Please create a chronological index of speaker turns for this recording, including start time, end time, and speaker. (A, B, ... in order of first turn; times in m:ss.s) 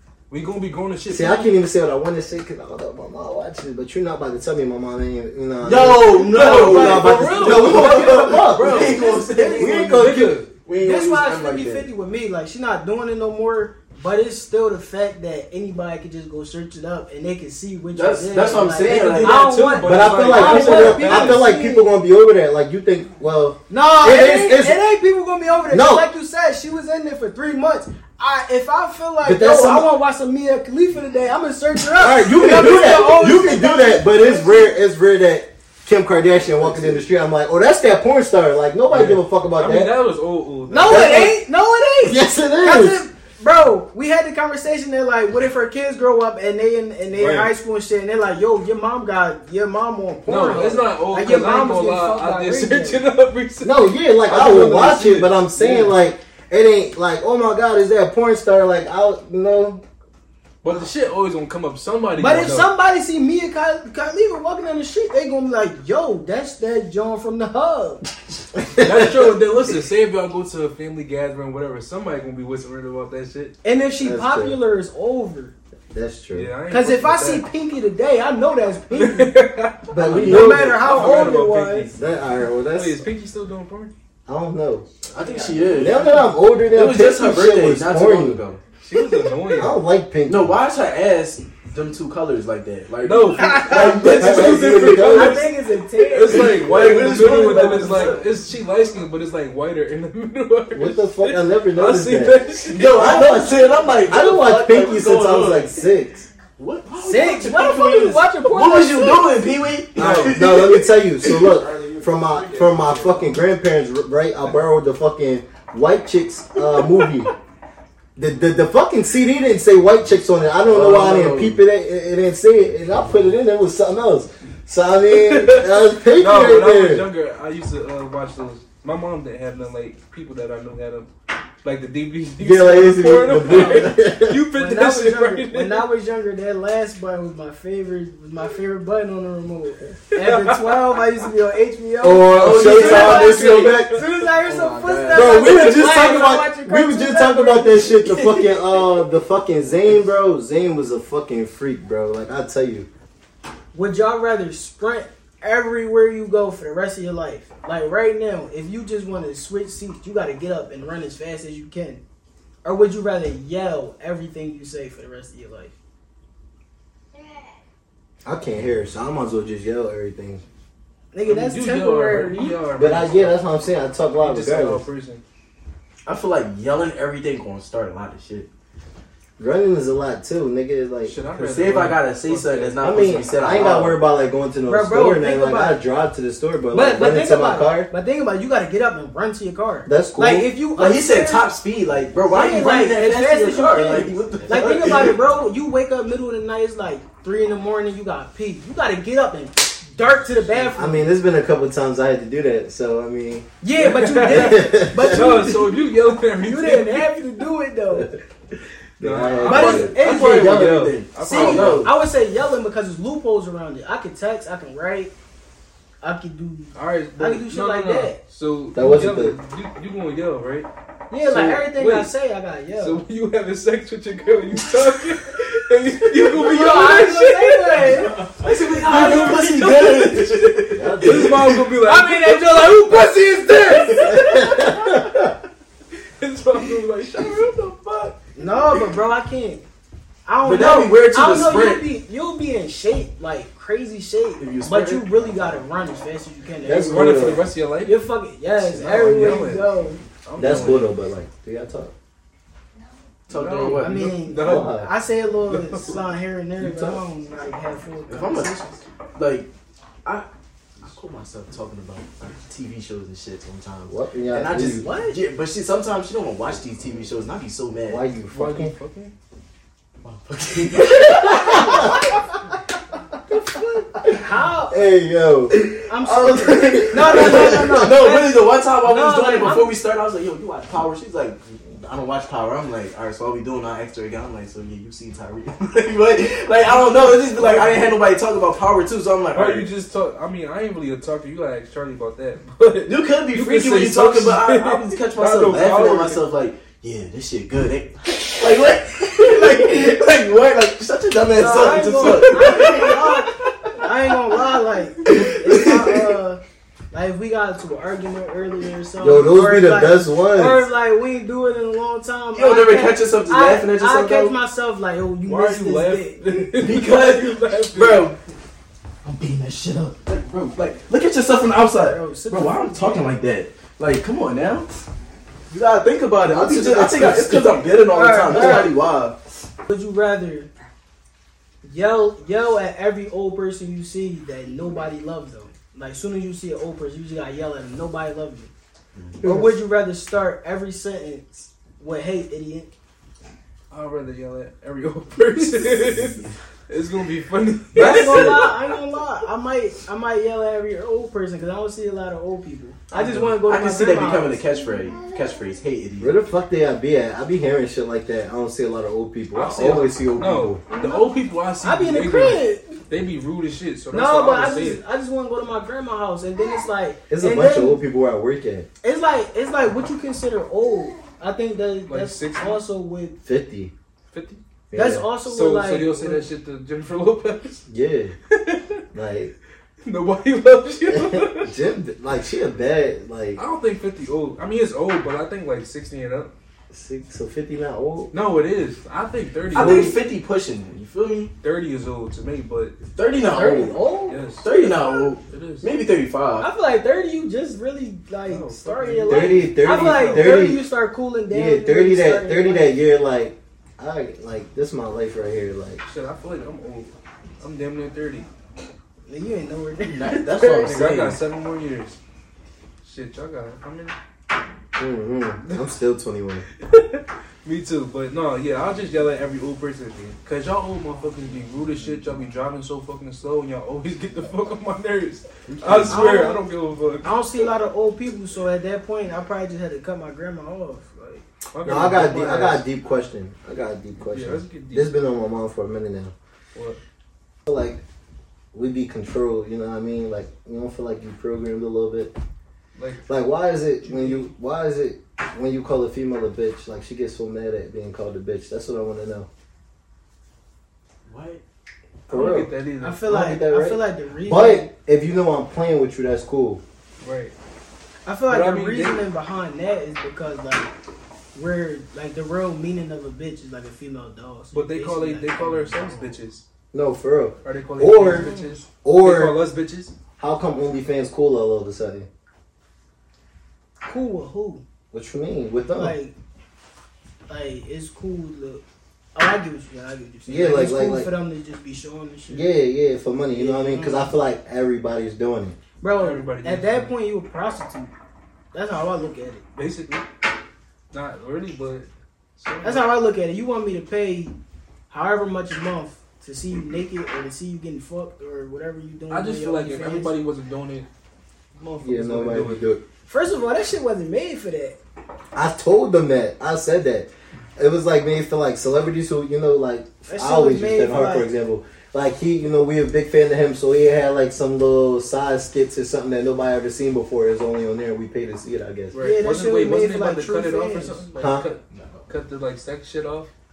0:00.3-0:01.5 A
0:01.1-0:10.4 B
0:05.6-0:10.0 C
0:06.3-0:08.9 A
0:06.6-0:07.1 D
0:08.7-0:10.2 D
0:09.9-0:10.5 A
0:10.6-0:11.9 C
0:10.8-0:21.9 D
0:17.9-0:19.4 C
0:18.8-0:21.4 A
0:19.8-0:24.8 B
0:23.7-0:34.7 D
0:25.7-0:26.1 B
0:29.2-0:29.9 B
0:32.0-0:40.0 B
0:38.9-0:41.3 A
0:40.7-0:53.0 D
0:40.8-0:41.3 B
0:42.0-0:43.0 B
0:47.1-0:47.5 A
0:50.2-0:55.4 A
0:53.6-0:59.8 B
0:54.3-0:55.0 D
1:00.6-1:02.7 A
1:02.2-1:08.0 D
1:08.8-1:13.6 A
1:13.6-1:15.6 D
1:14.0-1:14.6 B
1:15.9-1:16.5 B
1:16.3-1:17.4 A
1:16.7-1:19.3 D
1:18.9-1:22.0 A
1:19.9-1:21.4 B
1:20.0-1:20.6 C
1:20.2-1:21.9 D
1:22.0-1:23.0 B
1:22.7-1:23.9 A
1:24.2-1:24.8 B
1:25.1-1:28.6 C
1:25.2-1:25.9 D
1:25.7-1:28.4 B
1:28.8-1:29.8 A
1:29.6-1:30.6 B
1:30.2-1:35.0 C
1:33.0-1:35.5 A
1:33.4-1:38.3 D
1:33.6-1:35.4 B
1:36.0-1:43.0 A
1:36.2-1:38.2 C
1:40.7-1:46.3 B
1:42.7-1:45.7 C
1:46.6-1:51.3 C
1:47.0-1:49.3 D
1:50.0-1:57.3 B
1:50.0-1:50.3 A
1:51.6-1:53.4 A
1:58.2-2:07.1 B
2:00.7-2:01.6 C
2:05.1-2:11.1 A
2:11.6-2:15.8 A
2:12.4-2:14.4 B
2:13.4-2:13.9 D
2:14.5-2:28.3 D
2:20.1-2:21.0 A
2:22.0-2:23.9 B
2:22.3-2:23.7 C
2:22.6-2:24.0 A
2:24.4-2:25.6 C
2:25.1-2:32.9 B
2:33.7-2:42.0 D
2:42.6-2:45.7 D
2:48.2-2:50.4 B
2:51.1-2:52.6 D
2:51.2-2:53.4 A
2:52.7-2:54.8 B
2:54.2-2:55.2 A
2:56.1-2:58.5 C
2:59.4-3:01.1 B
3:01.0-3:03.1 A
3:01.4-3:04.0 C
3:02.8-3:07.9 B
3:04.7-3:05.8 D
3:06.7-3:11.5 D
3:09.8-3:10.5 B
3:10.8-3:15.2 C
3:12.3-3:21.1 D
3:20.6-3:23.5 B
3:23.6-3:25.8 D
3:23.7-3:27.1 A
3:24.3-3:25.2 B
3:26.4-3:28.1 D
3:29.0-3:30.0 B
3:29.0-3:31.9 A
3:29.5-3:35.1 D
3:29.5-3:31.9 C
3:36.0-3:38.2 D
3:36.7-3:40.7 A
3:38.7-3:39.4 B
3:41.1-3:43.0 D
3:41.2-3:42.1 A
3:42.8-3:48.1 A
3:46.3-3:50.1 D
3:48.4-3:51.6 C
3:48.8-3:50.3 A
3:50.7-3:51.4 B
3:51.0-3:55.3 A
3:51.8-3:54.1 D
3:54.0-3:55.2 B
3:56.2-3:58.1 A
3:58.3-3:59.6 D
4:00.2-4:10.0 D
4:00.4-4:01.9 C
4:04.4-4:05.1 C
4:06.6-4:07.4 B
4:06.7-4:08.0 A
4:08.6-4:10.9 A
4:10.4-4:11.9 B
4:13.3-4:14.0 C
4:13.3-4:14.9 A
4:13.7-4:18.6 D
4:14.3-4:14.9 B
4:15.5-4:16.0 A
4:16.6-4:17.0 B
4:18.1-4:19.5 C
4:20.8-4:28.0 C
4:23.8-4:24.8 B
4:24.8-4:25.2 D
4:27.9-4:28.7 B
4:28.3-4:29.1 A
4:30.0-4:31.9 C
4:30.8-4:32.0 B
4:31.3-4:32.1 D
4:33.5-4:34.9 D
4:34.0-4:35.6 B
4:35.5-4:49.7 C
4:35.9-4:39.7 D
4:36.8-4:37.9 B
4:46.7-4:47.8 D
4:49.3-4:56.2 A
4:52.8-5:03.3 C
5:01.3-5:06.4 D
5:01.6-5:02.8 A
5:05.1-5:06.1 C
5:06.9-5:16.4 D
5:09.0-5:10.7 B
5:12.3-5:14.4 C
5:15.2-5:18.1 A
5:16.6-5:18.2 C
5:19.0-5:24.8 C
5:21.8-5:23.2 D
5:25.5-5:29.2 C
5:26.2-5:27.5 B
5:27.7-5:28.7 D
5:29.7-5:30.5 D
5:31.6-5:38.5 D
5:39.0-5:39.3 C
5:39.2-5:42.7 D
5:43.7-5:48.5 A
5:47.7-5:54.4 D
5:47.8-5:48.1 C
5:52.9-5:56.1 C
5:56.0-6:00.6 B
5:59.3-6:04.8 A
6:00.7-6:02.8 D
6:03.9-6:07.8 D
6:07.1-6:08.7 B
6:08.8-6:13.2 D
6:11.9-6:12.6 A
6:13.2-6:13.7 B
6:14.1-6:14.4 A
6:14.7-6:15.1 B
6:14.7-6:16.3 D
6:15.2-6:17.6 A
6:17.7-6:18.1 B
6:18.3-6:18.8 A
6:18.9-6:19.3 B
6:19.8-6:21.5 A
6:20.9-6:23.4 B
6:23.4-6:26.3 A
6:26.7-6:28.1 B
6:28.1-6:30.0 A
6:29.5-6:31.3 C
6:29.6-6:30.0 B
6:31.4-6:32.8 A
6:32.9-6:33.8 C
6:33.3-6:35.1 D
6:34.1-6:34.4 A
6:34.4-6:36.5 C
6:35.2-6:35.7 A
6:36.4-6:42.7 D
6:38.2-6:40.4 A
6:39.1-6:40.6 B
6:41.3-6:45.8 B
6:45.8-6:48.3 A
6:49.1-6:50.2 D
6:49.8-6:51.2 C
6:50.6-6:52.0 A
6:52.8-6:53.9 A
6:54.8-6:56.4 B
6:56.6-7:07.1 A
7:05.4-7:06.1 C
7:05.9-7:06.4 D
7:07.0-7:11.3 D
7:11.5-7:12.6 A
7:11.6-7:16.1 B
7:14.1-7:14.9 A
7:17.5-7:17.8 B
7:18.5-7:22.1 B
7:22.8-7:23.1 A
7:23.1-7:29.3 B
7:23.8-7:24.3 A
7:31.1-7:31.4 C
7:32.1-7:32.5 B
7:32.1-7:33.0 A
7:32.8-7:34.7 D
7:33.1-7:36.6 B
7:37.0-7:37.3 A
7:38.1-7:40.7 D
7:38.3-7:39.0 A
7:41.3-7:46.2 D
7:44.5-7:46.4 A
7:46.7-7:48.3 B
7:47.4-7:49.9 A
7:48.1-7:48.5 D
7:48.8-7:49.4 B
7:50.2-7:52.1 B
7:53.8-7:54.6 D
7:54.9-7:56.0 B
7:55.8-7:56.1 D
7:57.3-7:58.6 D
7:59.1-8:02.5 D
8:00.3-8:01.1 B
8:02.3-8:05.6 B
8:03.3-8:04.1 D
8:05.8-8:07.9 D
8:06.0-8:06.9 A
8:08.5-8:09.4 D
8:09.6-8:10.0 A
8:10.9-8:12.9 A
8:12.6-8:14.3 D
8:14.9-8:20.2 D
8:19.1-8:20.9 A
8:21.6-8:22.6 A
8:21.8-8:22.8 B
8:23.1-8:24.8 D
8:25.3-8:38.9 B
8:30.1-8:31.3 D
8:38.9-8:43.3 A
8:39.0-8:41.1 D
8:41.2-8:41.5 B
8:41.7-8:42.0 C